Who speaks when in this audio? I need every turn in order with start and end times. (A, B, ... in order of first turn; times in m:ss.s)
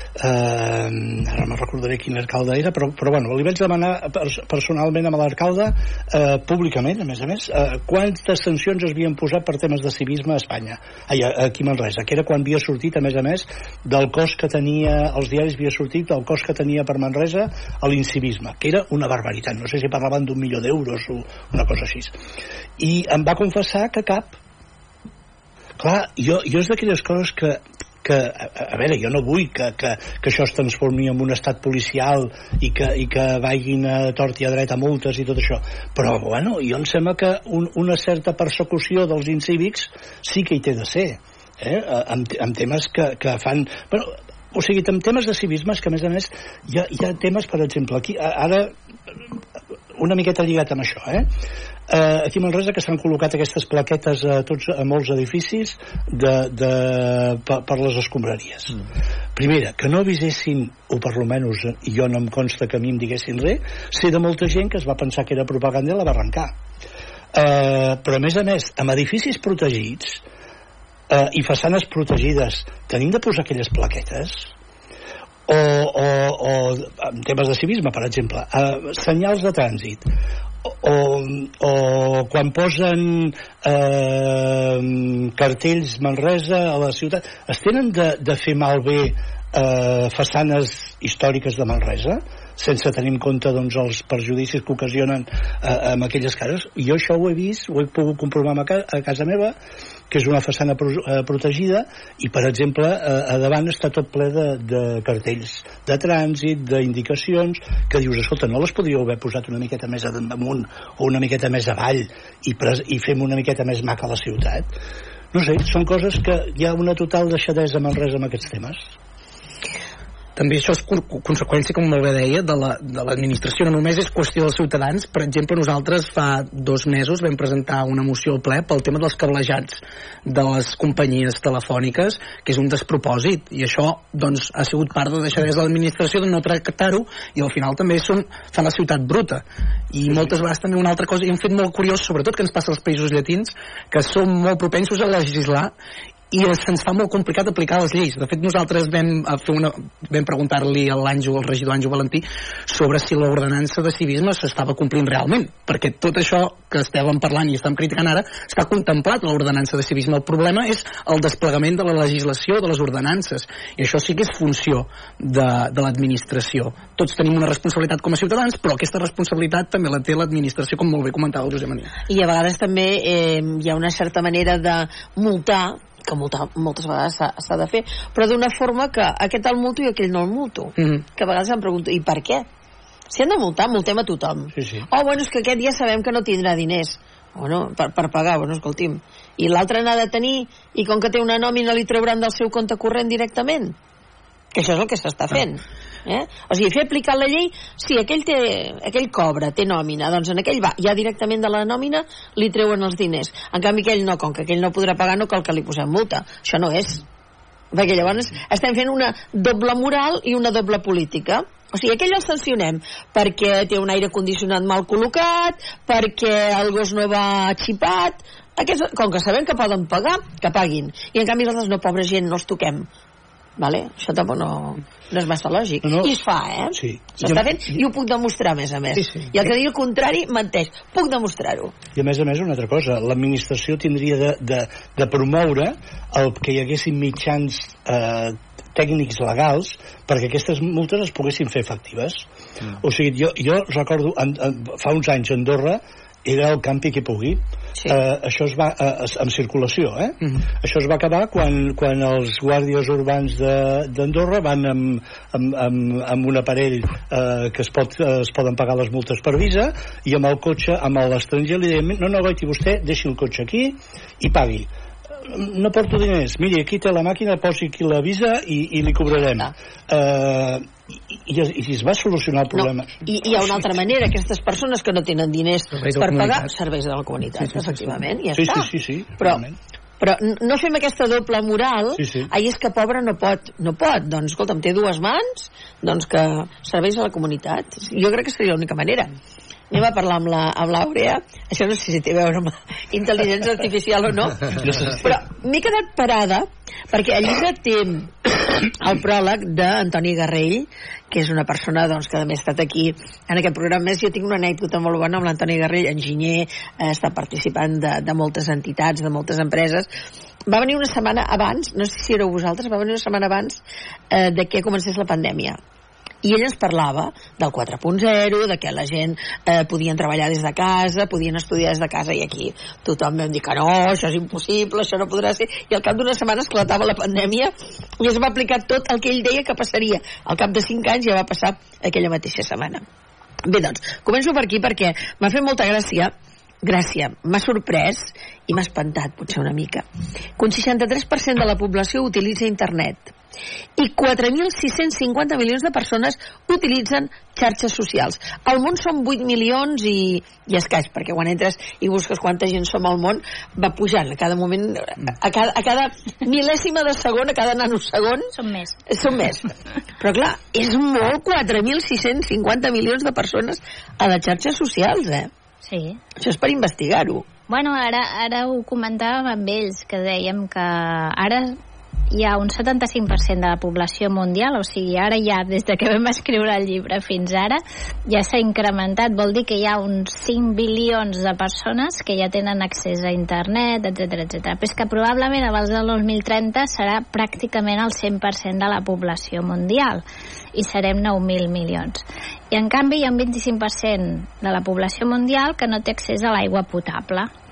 0:00.2-0:22.1 A
0:22.8-0:24.4 A
0:25.8-0:48.7 A
0:50.0-0:51.3 A
0:51.9-0:58.8 A
0:59.4-1:06.5 A
1:07.3-1:10.2 A
1:11.1-1:14.5 A
1:15.5-1:20.1 A
1:20.6-1:39.5 A
1:40.1-1:54.7 A
1:55.3-1:58.9 A
2:00.4-2:25.7 B
2:26.3-2:51.9 B
2:52.1-3:02.4 C
3:00.8-3:01.0 B
3:03.1-3:13.8 C
3:04.5-3:04.8 A
3:14.5-3:27.0 C
3:27.7-3:42.9 C
3:43.6-3:51.7 C
3:45.8-3:46.1 A
3:46.7-3:47.4 A
3:51.9-4:02.3 A
4:02.8-4:24.7 A
4:25.2-4:33.1 A
4:32.5-4:39.4 C
4:35.7-4:36.5 B
4:37.4-4:37.8 B
4:38.3-4:39.6 A
4:40.0-4:49.1 C
4:42.0-4:42.3 A
4:49.7-5:09.9 C
4:54.6-4:55.0 A
5:10.5-5:13.6 C
5:14.1-5:15.6 C
5:16.2-5:32.8 C
5:33.4-5:36.1 C
5:36.6-5:39.8 C
5:40.4-5:43.1 C
5:43.8-5:58.3 C
5:58.3-5:58.8 D
5:58.9-6:05.3 C
6:05.6-6:06.0 D
6:06.2-6:07.2 C
6:07.5-6:11.6 D
6:12.1-6:30.0 D
6:30.5-6:37.3 D